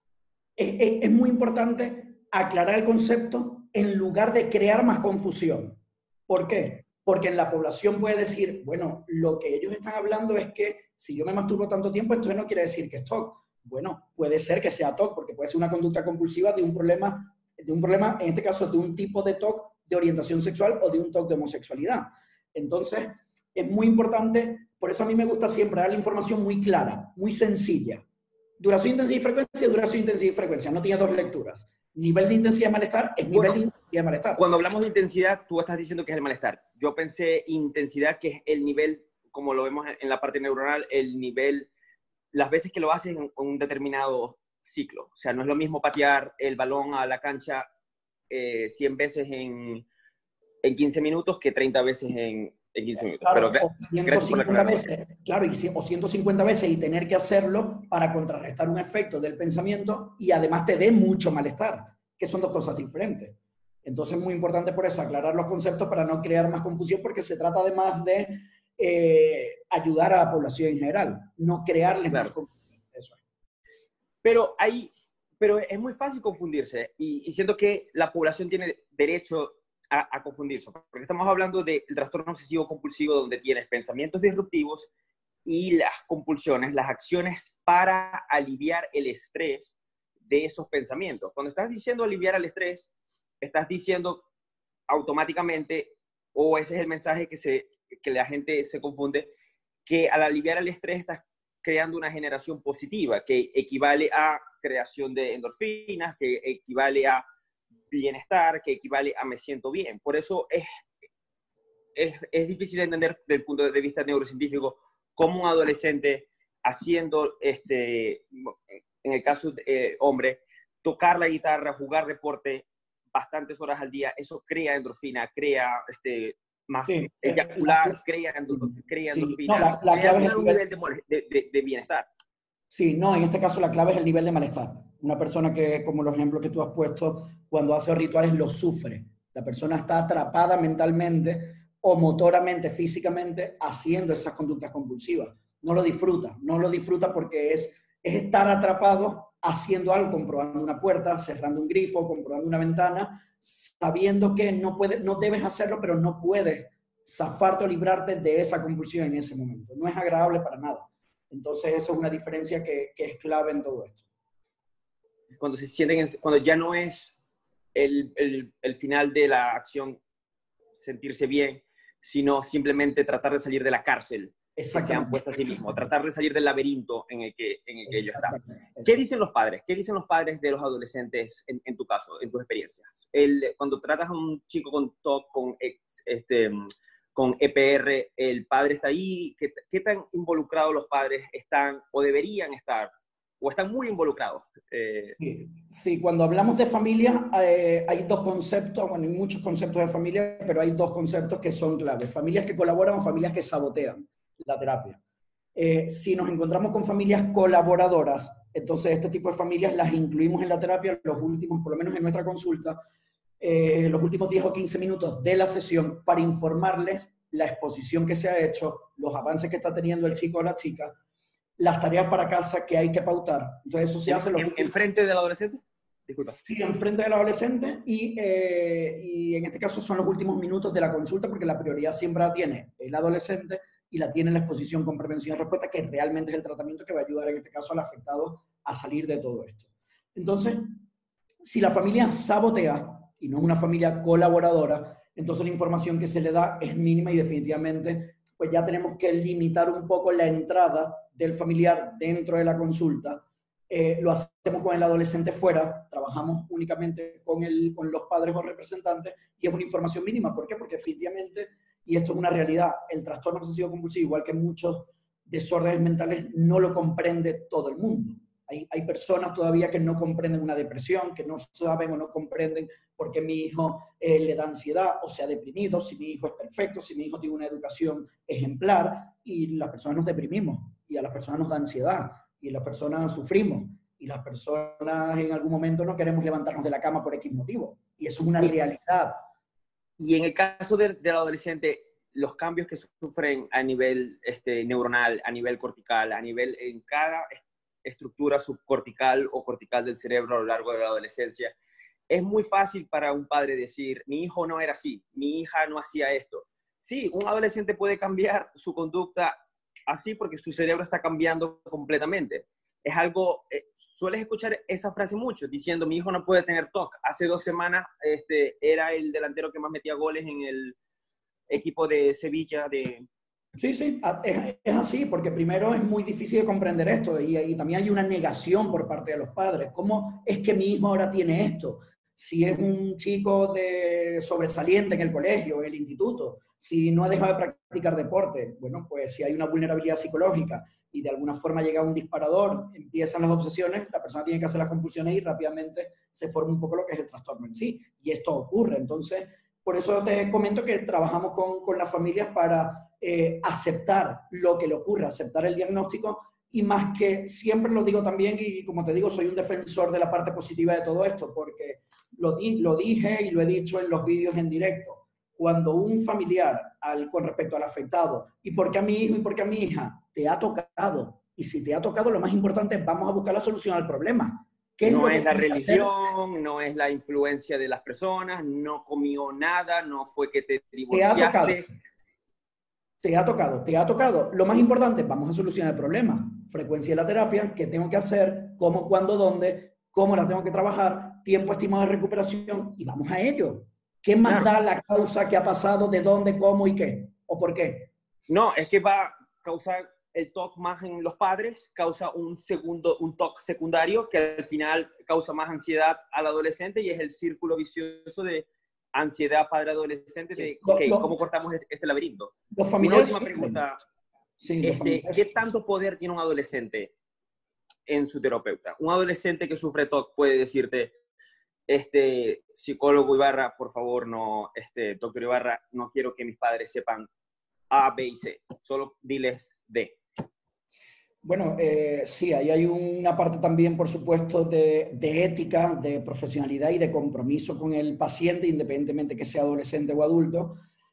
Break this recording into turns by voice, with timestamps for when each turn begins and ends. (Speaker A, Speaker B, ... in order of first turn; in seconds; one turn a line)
Speaker A: 0.6-28.0
Speaker A: 28.6-34.4
Speaker B: 33.3-33.6
Speaker B: 34.4-41.7
Speaker B: 42.3-47.7
Speaker B: 48.3-49.9
Speaker B: 50.6-54.9
Speaker A: 53.2-73.2
Speaker B: 74.2-84.9
Speaker B: 85.4-89.8
Speaker B: 90.3-92.9
Speaker B: 93.4-94.2
Speaker B: 94.9-99.3
Speaker B: 99.9-107.2
Speaker B: 107.9-110.7
Speaker B: 112.0-132.1
Speaker A: 126.9-128.0
Speaker A: 128.5-130.6
Speaker A: 132.7-164.0
Speaker B: 165.3-167.2
Speaker B: 167.7-170.0
Speaker B: 170.8-195.2
Speaker A: 174.6-175.7
Speaker A: 177.9-179.0
Speaker A: 195.2-205.0
Speaker A: 205.6-212.8
Speaker A: 213.4-220.9
Speaker A: 221.6-224.7
Speaker B: 224.1-226.4
Speaker A: 226.2-240.8
Speaker A: 241.4-289.2
Speaker B: 290.0-301.6
Speaker B: 302.1-320.8
Speaker B: 321.5-323.1
Speaker A: 323.6-375.9
Speaker B: 374.9-381.6
Speaker A: 380.9-381.6
Speaker A: 383.0-397.9
Speaker B: 398.3-413.8
Speaker A: 410.4-411.1
Speaker A: 412.6-413.6
Speaker A: 414.4-415.2
Speaker B: 414.6-416.9
Speaker B: 417.9-420.9
Speaker B: 421.7-427.1
Speaker B: 427.7-430.0
Speaker A: 431.2-440.6